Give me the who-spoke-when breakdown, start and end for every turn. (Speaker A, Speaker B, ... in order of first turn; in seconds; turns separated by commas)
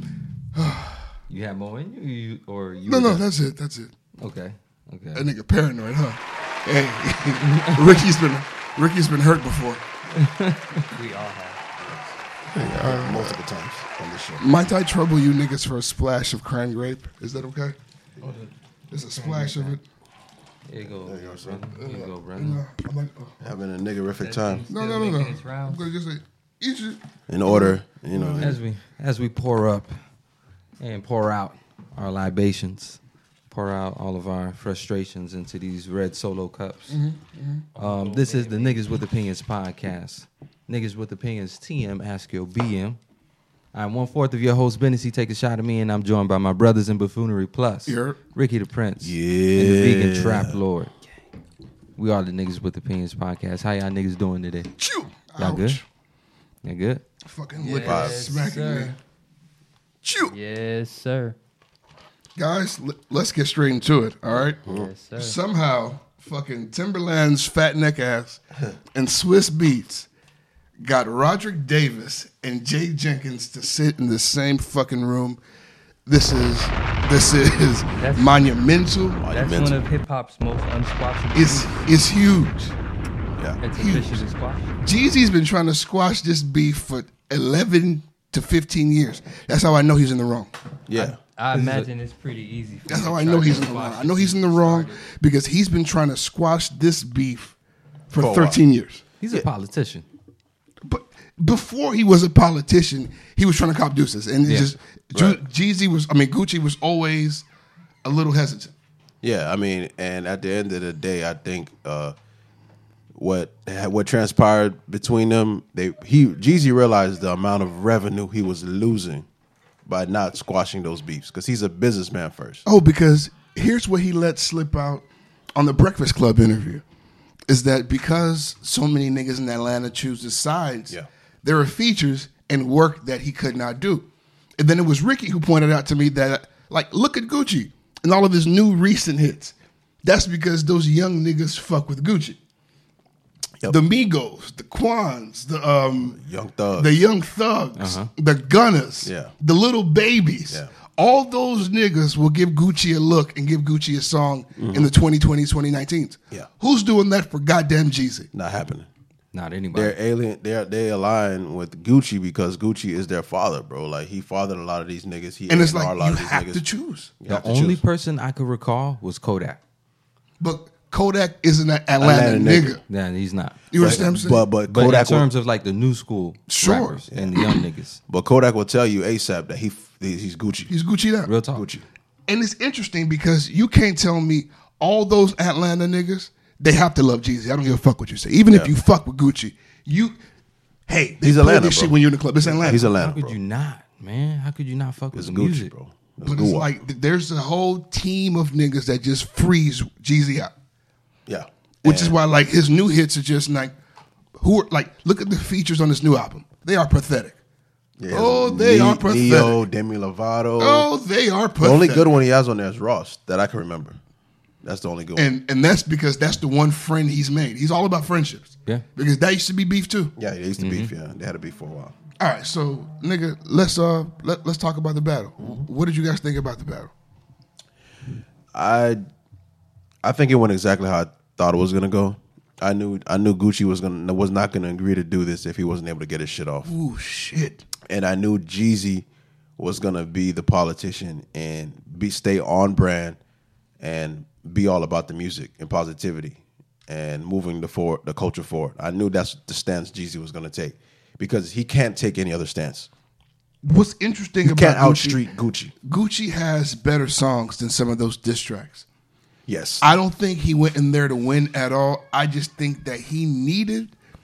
Speaker A: 0.6-1.1, Speaker B: 1.3-3.3, Speaker A: 2.9-3.9, Speaker B: 4.2-5.3, Speaker A: 5.2-9.8, Speaker B: 7.5-7.9, Speaker C: 10.2-11.6, Speaker D: 11.8-14.5, Speaker A: 12.6-13.4, Speaker A: 14.4-17.8, Speaker D: 18.2-18.5, Speaker A: 18.9-19.8, Speaker C: 19.4-19.7, Speaker B: 20.7-22.6, Speaker D: 20.9-21.7, Speaker A: 21.8-23.4, Speaker D: 23.4-24.6, Speaker C: 24.2-25.8, Speaker A: 24.7-28.6, Speaker D: 27.3-28.6, Speaker B: 28.4-29.9, Speaker B: 30.8-33.0, Speaker B: 33.5-37.0, Speaker A: 36.9-37.7, Speaker C: 37.8-39.0, Speaker B: 37.8-43.0, Speaker B: 43.7-50.9, Speaker A: 47.9-48.2, Speaker D: 49.0-50.6, Speaker B: 52.0-54.7, Speaker A: 54.8-55.8, Speaker B: 55.4-55.8, Speaker B: 56.6-57.0, Speaker A: 57.2-59.0, Speaker C: 57.5-59.0, Speaker D: 57.8-58.2, Speaker C: 60.3-61.4, Speaker A: 62.4-64.6, Speaker C: 64.6-65.4, Speaker A: 65.2-68.4, Speaker A: 68.9-70.1, Speaker A: 70.8-75.4, Speaker A: 76.1-79.2, Speaker C: 78.0-78.4, Speaker D: 79.2-79.8, Speaker C: 79.3-81.9, Speaker A: 81.3-82.7, Speaker C: 83.6-84.7, Speaker A: 83.8-84.2, Speaker A: 84.8-90.5, Speaker D: 90.9-91.2, Speaker B: 91.0-91.9, Speaker C: 91.4-95.0, Speaker A: 92.9-97.5, Speaker A: 98.1-99.0, Speaker D: 98.2-98.6, Speaker B: 99.2-100.0, Speaker A: 100.8-107.5, Speaker B: 104.5-104.7, Speaker D: 105.1-105.4, Speaker A: 108.0-108.7, Speaker D: 109.2-112.2, Speaker D: 113.2-119.2, Speaker D: 119.9-122.6, Speaker A: 122.7-125.0, Speaker A: 125.5-126.8, Speaker A: 127.5-134.1, Speaker A: 134.6-139.5, Speaker A: 140.0-142.4, Speaker A: 143.7-146.2, Speaker D: 146.1-147.0, Speaker A: 146.8-158.3, Speaker B: 147.8-148.1, Speaker D: 149.0-149.3, Speaker D: 154.6-154.9, Speaker D: 158.3-158.9, Speaker B: 159.3-160.0, Speaker D: 159.8-166.6, Speaker A: 165.5-167.1, Speaker D: 167.2-167.8, Speaker B: 167.3-169.6, Speaker A: 170.4-172.8, Speaker D: 172.0-172.8, Speaker B: 172.9-178.0, Speaker A: 173.7-174.4, Speaker D: 173.8-175.3, Speaker A: 176.5-177.0, Speaker D: 177.1-177.4, Speaker D: 178.1-180.7, Speaker A: 180.7-181.3, Speaker B: 181.3-181.7, Speaker D: 181.6-181.8, Speaker A: 182.3-190.2, Speaker A: 190.9-192.9, Speaker D: 191.2-193.4, Speaker B: 192.7-195.7, Speaker D: 195.1-196.7, Speaker A: 196.2-200.5, Speaker D: 201.3-202.2, Speaker A: 201.8-203.7, Speaker A: 204.4-207.4, Speaker D: 208.0-210.9, Speaker A: 208.1-209.6, Speaker A: 210.6-212.1, Speaker D: 211.6-214.0, Speaker D: 214.6-215.3, Speaker A: 215.2-220.1, Speaker D: 220.2-221.9, Speaker B: 220.6-220.9, Speaker A: 222.2-226.9, Speaker D: 228.5-229.1, Speaker D: 230.0-236.7, Speaker A: 236.7-237.7, Speaker D: 237.9-239.1, Speaker D: 239.6-243.2, Speaker D: 243.8-252.9, Speaker A: 253.6-255.2, Speaker D: 254.4-255.7, Speaker A: 255.8-258.9, Speaker D: 259.5-259.9, Speaker A: 259.8-263.9